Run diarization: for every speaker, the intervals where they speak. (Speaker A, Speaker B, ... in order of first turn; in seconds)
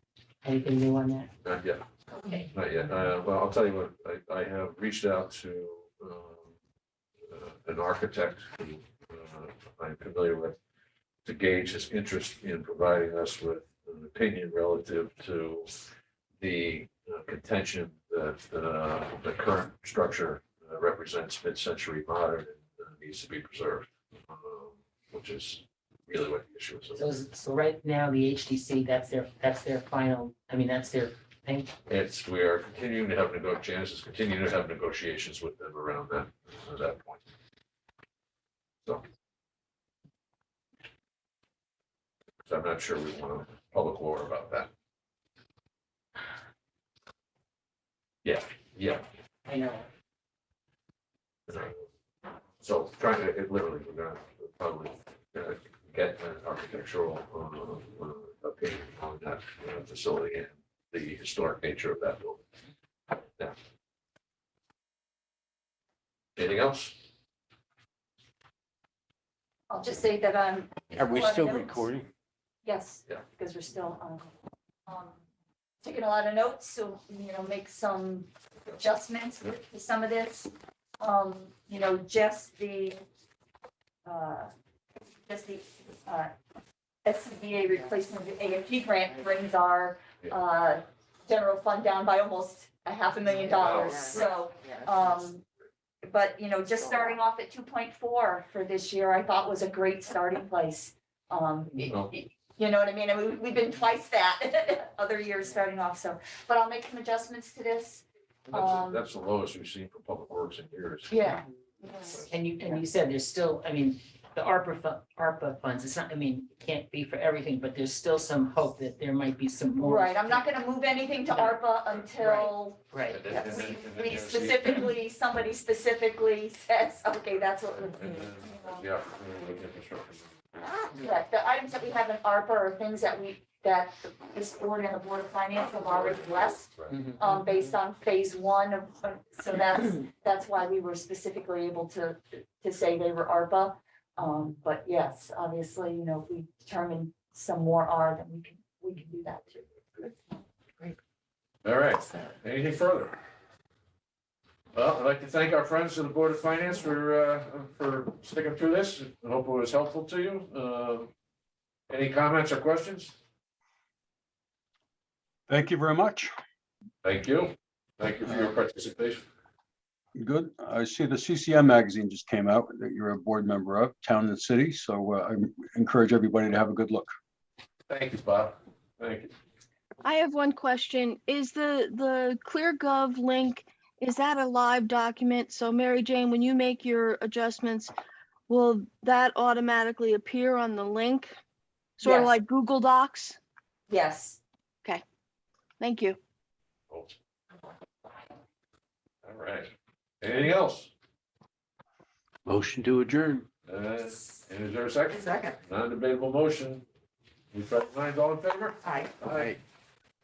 Speaker A: 0.4-1.3, 27.0-31.8, 49.5-49.9, 112.3-120.3, 122.2-123.3
Speaker B: 1.4-1.8, 2.5-6.5, 7.3-10.6, 11.2-15.7, 16.4-27.1, 31.9-37.2, 42.5-44.7, 48.2-49.1, 51.5-51.8, 52.6-62.4, 66.4-67.0, 93.6-94.3, 101.9-102.1, 108.5-111.2, 123.1-124.9, 127.9-130.3, 135.6-137.1, 151.6-153.2, 154.7-161.1, 161.9-163.1, 167.0-169.2, 177.9-179.3, 196.9-197.2, 199.2-199.7, 200.2-200.9, 203.7-206.8, 207.5-209.6
Speaker C: 69.7-71.8, 72.6-74.3, 74.9-75.2, 75.8-83.0, 84.0-84.5, 85.3-86.3, 87.0-95.4, 96.0-109.0, 111.1-112.3, 119.8-128.8, 131.0-150.4, 192.0-192.3, 193.9-194.4
Speaker D: 70.9-72.1, 202.5-203.5, 209.3-209.6
Speaker E: 165.5-166.3, 170.2-177.1
Speaker F: 180.0-187.9, 188.5-191.3, 192.0-193.4, 195.8-196.2